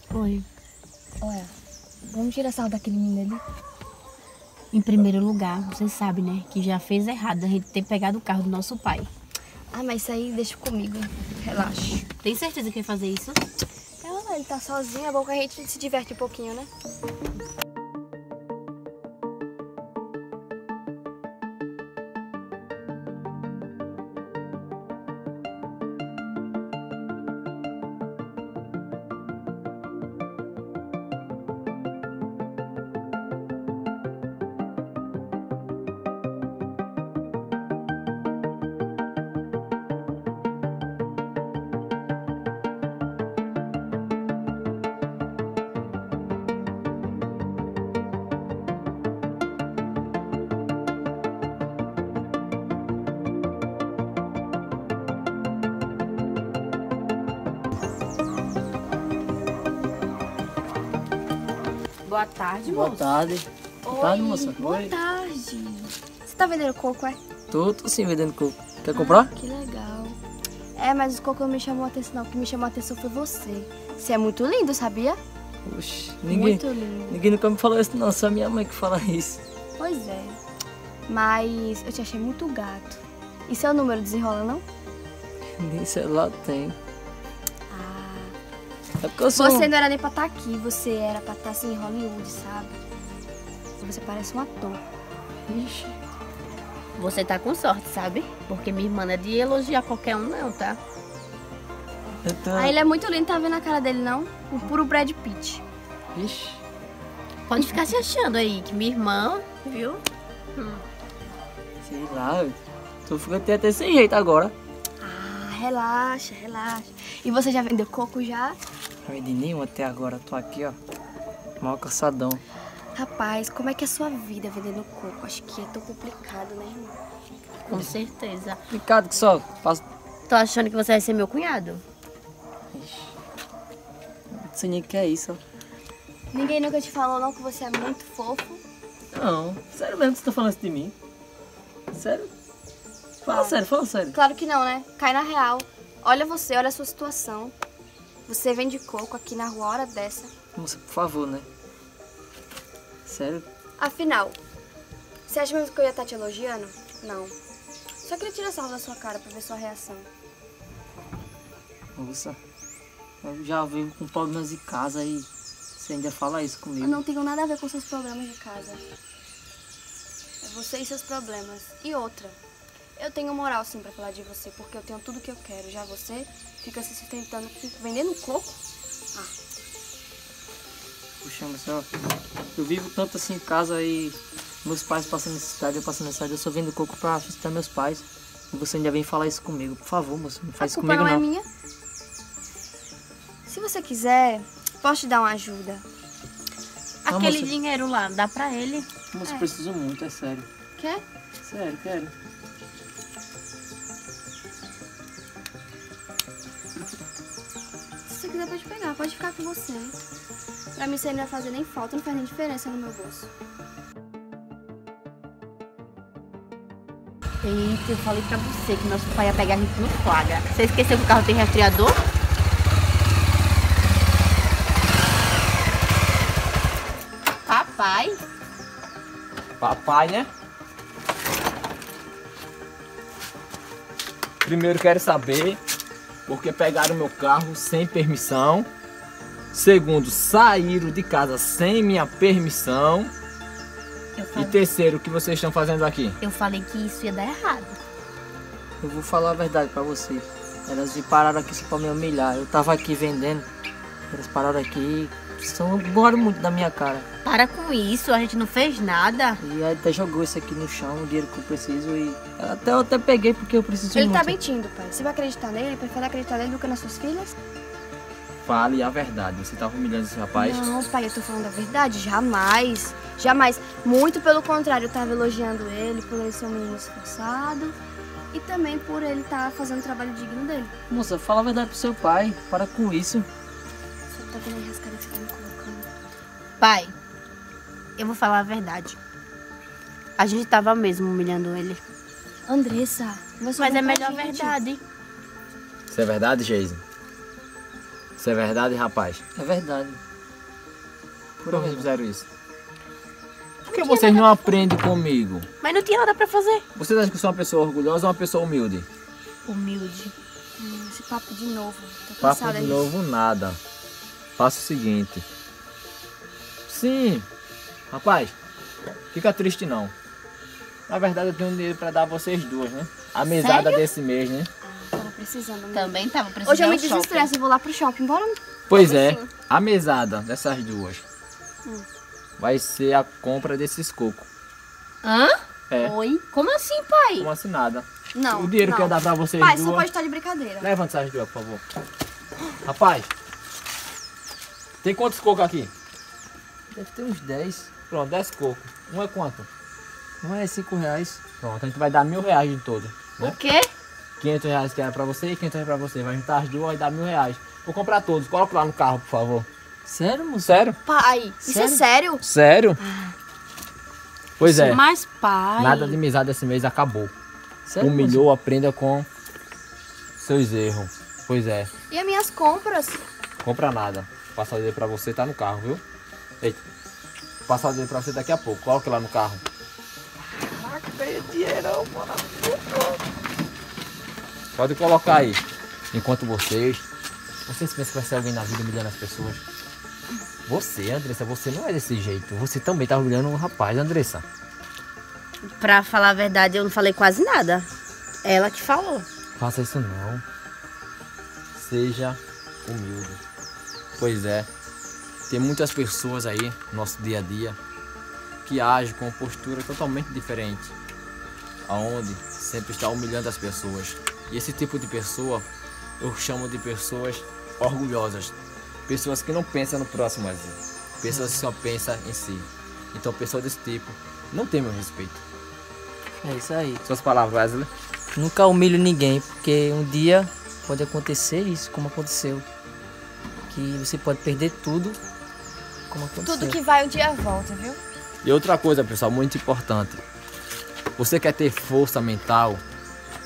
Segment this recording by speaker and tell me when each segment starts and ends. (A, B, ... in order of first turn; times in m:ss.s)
0:00.1-0:00.4 A
0:01.2-0:01.5 B
0:02.0-0:03.4 B
0:04.7-0:09.1 A
0:09.7-0:12.1 B
0:12.2-0:13.4 A
0:14.0-0:16.7 B
1:02.0-1:03.1 A
1:02.6-1:04.9 C
1:03.8-1:07.2 B
1:07.5-1:09.3 C
1:08.9-1:10.2 B
1:10.7-1:15.2 B
1:15.6-1:19.4 C
1:16.3-1:17.2 B
1:19.8-1:20.4 B
1:21.1-1:24.6 B
1:25.6-1:26.8 C
1:27.7-1:28.4 B
1:29.0-1:29.7 C
1:29.3-1:32.8 B
1:33.8-1:34.8 B
1:35.5-1:35.9 C
1:37.0-1:40.8 A
1:42.2-1:42.8 C
1:42.5-1:45.6 B
1:46.1-1:46.6 C
1:47.5-1:50.0 A
1:50.6-1:50.8 A
1:51.8-1:54.5 C
1:55.0-1:58.6 B
1:59.0-2:00.8 C
2:01.6-2:02.4 C
2:02.9-2:07.0 B
2:07.6-2:08.6 A
2:08.7-2:09.8 C
2:10.3-2:11.8 A
2:12.7-2:13.1 C
2:14.3-2:15.4 C
2:16.3-2:18.6 B
2:19.1-2:20.9 C
2:21.9-2:22.3 C
2:23.2-2:24.2 C
2:23.3-2:23.6 B
2:24.1-2:27.5 B
2:28.3-2:30.3 B
2:30.6-2:31.4 C
2:33.0-2:33.4 C
2:33.8-2:34.4 B
2:35.3-2:37.3 B
2:38.0-2:40.1 B
2:42.0-2:42.4 C
2:43.2-2:47.0 C
2:46.8-2:48.8 B
2:50.4-2:52.4 B
2:53.0-2:58.6 B
3:01.2-3:01.9 C
3:02.5-3:11.2 C
3:10.6-3:11.5 B
3:13.4-3:15.8 B
3:17.0-3:18.9 A
3:17.1-3:17.6 C
3:19.1-3:20.5 C
3:19.2-3:19.5 B
3:20.8-3:21.0 B
3:21.4-3:22.1 C
3:28.1-3:30.0 B
3:30.7-3:33.3 B
3:37.4-3:42.0 A
3:47.4-3:48.2 A
3:49.6-3:50.3 D
3:54.4-3:55.6 D
3:56.3-3:58.7 D
3:59.5-4:03.1 D
4:04.2-4:04.6 A
4:04.3-4:06.2 D
4:06.2-4:07.8 A
4:08.8-4:13.5 C
4:14.1-4:17.1 C
4:17.2-4:19.4 A
4:19.4-4:24.4 C
4:23.9-4:27.3 B
4:28.4-4:30.6 D
4:30.3-4:37.8 B
4:38.3-4:40.7 B
4:40.9-4:43.3 C
4:44.1-4:45.9 B
4:46.6-4:46.9 A
4:48.0-4:49.0 A
4:50.2-4:51.8 A
4:52.5-4:54.6 B
4:53.6-4:54.8 A
4:55.9-4:56.8 D
4:58.2-4:59.2 D
4:59.3-5:00.0 C
5:01.4-5:01.9 C
5:01.5-5:02.2 D
5:03.6-5:04.6 A
5:03.7-5:05.5 D
5:05.6-5:06.6 A
5:06.8-5:08.9 D
5:09.4-5:10.1 A
5:10.6-5:12.9 B
5:12.2-5:13.6 D
5:14.4-5:15.2 D
5:16.7-5:17.3 D
5:17.9-5:18.3 D
5:19.1-5:19.9 D
5:20.9-5:24.5 D
5:23.3-5:23.8 A
5:24.7-5:28.4 B
5:25.7-5:27.3 A
5:28.7-5:31.0 D
5:32.4-5:34.3 D
5:35.0-5:37.3 A
5:35.7-5:35.9 D
5:37.2-5:39.9 D
5:38.1-5:40.7 B
5:40.6-5:41.6 D
5:42.6-5:43.1 D
5:44.8-5:45.7 D
5:46.7-5:47.7 C
5:47.8-5:49.5 D
5:50.2-5:51.2 C
5:51.4-5:53.4 D
5:53.2-5:53.7 B
5:54.2-5:59.5 D
5:59.8-6:00.6 C
6:00.4-6:00.8 D
6:00.8-6:02.2 B
6:01.4-6:01.8 C
6:02.2-6:02.8 D
6:04.4-6:04.8 D
6:04.4-6:06.0 A
6:05.6-6:07.1 D
6:07.6-6:08.2 C
6:07.8-6:09.1 D
6:10.2-6:11.7 D
6:11.9-6:13.0 B
6:13.4-6:15.8 D
6:17.5-6:19.4 D
6:20.3-6:23.0 B
6:24.6-6:26.8 D
6:27.4-6:29.4 D
6:30.5-6:34.2 D
6:35.4-6:37.7 A
6:38.2-6:39.0 A
6:39.4-6:40.2 D
6:41.6-6:43.2 D
6:44.0-6:44.5 D
6:45.3-6:47.6 D
6:48.4-6:50.7 D
6:51.7-6:55.5 D
6:56.0-6:58.3 D
6:58.9-7:05.2 D
7:06.2-7:06.8 C
7:06.8-7:07.7 D
7:08.1-7:12.4 C
7:13.5-7:15.0 C
7:15.9-7:16.6 C
7:16.2-7:17.8 B
7:18.2-7:20.0 D
7:21.0-7:22.6 D